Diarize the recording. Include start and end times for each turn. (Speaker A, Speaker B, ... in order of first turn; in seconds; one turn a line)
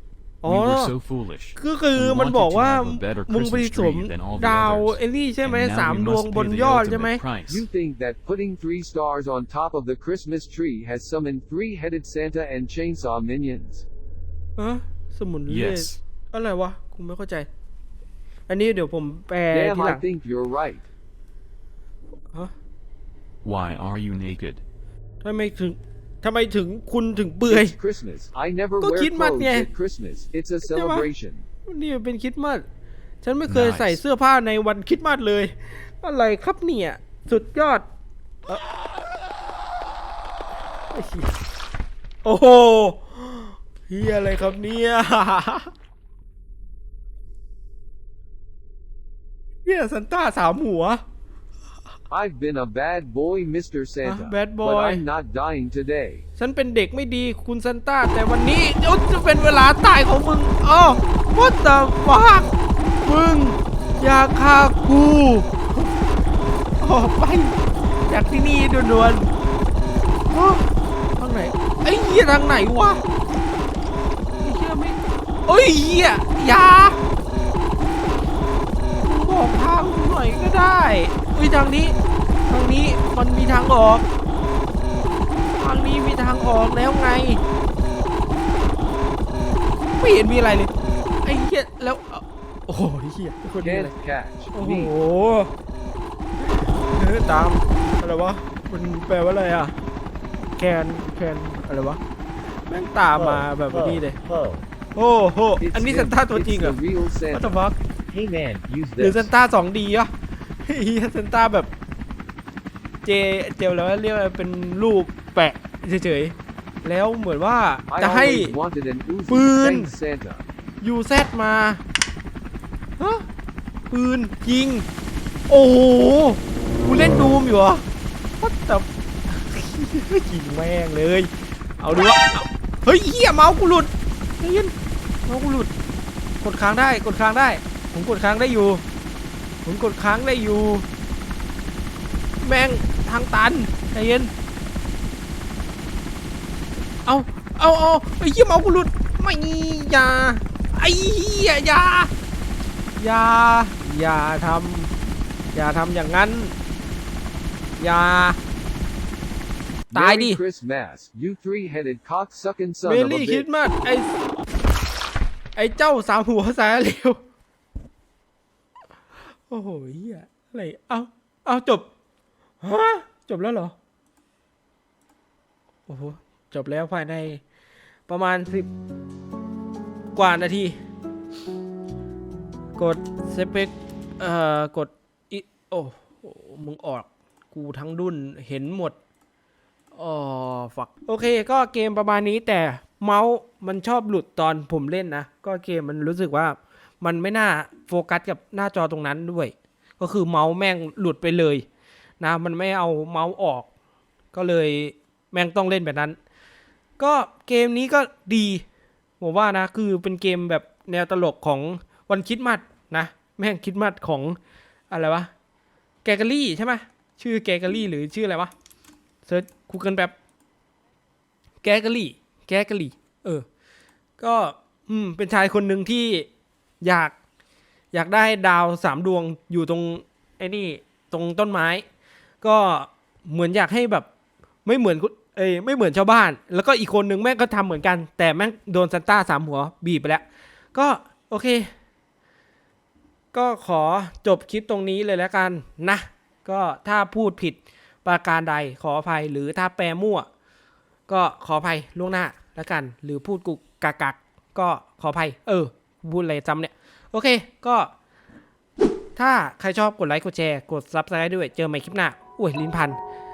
Speaker A: 0.4-0.9
Speaker B: 0.4-7.7
Speaker A: 1.6-7.2
Speaker C: 7.5-13.9
Speaker A: 14.6-17.5
Speaker B: 15.5-16.0
Speaker A: 18.5-20.0
Speaker C: 19.5-20.9
Speaker B: 23.4-24.6
Speaker A: 25.2-27.8
Speaker C: 27.5-31.5
Speaker A: 28.8-29.7
Speaker A: 30.6-31.1
Speaker A: 31.7-32.6
Speaker A: 33.2-37.9
Speaker B: 33.5-34.0
Speaker A: 38.5-38.8
Speaker A: 40.9-41.3
Speaker A: 42.2-45.7
Speaker A: 49.6-51.0
Speaker C: 52.1-56.2
Speaker A: 54.0-55.0
Speaker A: 56.4-65.9
Speaker A: 66.8-69.3
Speaker A: 70.3-70.6
Speaker A: 71.2-73.0
Speaker A: 74.4-77.0
Speaker A: 79.0-84.1
Speaker A: 85.6-87.4
Speaker A: 90.0-90.7
Speaker A: 91.2-93.9
Speaker C: 93.6-94.9
Speaker A: 94.5-95.5
Speaker A: 96.4-99.8
Speaker A: 100.6-102.0
Speaker A: 102.7-104.2
Speaker C: 104.2-104.6
Speaker A: 105.0-106.8
Speaker C: 105.6-109.3
Speaker A: 107.3-107.8
Speaker A: 109.0-110.1
Speaker A: 110.6-111.7
Speaker A: 113.0-118.5
Speaker C: 117.9-120.5
Speaker A: 119.3-119.9
Speaker A: 120.8-121.8
Speaker A: 123.0-123.2
Speaker A: 123.9-124.9
Speaker A: 125.5-127.8
Speaker A: 128.4-134.7
Speaker A: 135.3-135.7
Speaker A: 136.4-138.8
Speaker A: 139.6-140.9
Speaker A: 142.4-144.3
Speaker A: 147.1-152.1
Speaker A: 153.0-154.9
Speaker A: 155.5-156.6
Speaker A: 157.8-158.4
Speaker C: 159.9-163.5
Speaker A: 159.9-160.4
Speaker A: 162.8-164.2
Speaker A: 165.6-167.2
Speaker A: 169.5-171.9
Speaker A: 172.6-173.7
Speaker A: 175.9-177.4
Speaker A: 178.1-178.7
Speaker A: 180.2-180.8
Speaker A: 182.8-189.0
Speaker A: 189.9-201.7
Speaker A: 202.2-203.7
Speaker A: 204.3-206.2
Speaker A: 207.0-208.6
Speaker A: 209.2-214.4
Speaker A: 214.9-215.3
Speaker A: 216.0-218.5
Speaker A: 219.2-220.1
Speaker A: 221.6-223.4
Speaker A: 224.2-226.3
Speaker A: 226.8-227.2
Speaker A: 227.9-231.8
Speaker A: 232.4-234.1
Speaker A: 234.7-241.7
Speaker A: 243.3-250.3
Speaker A: 251.1-257.9
Speaker A: 259.2-263.0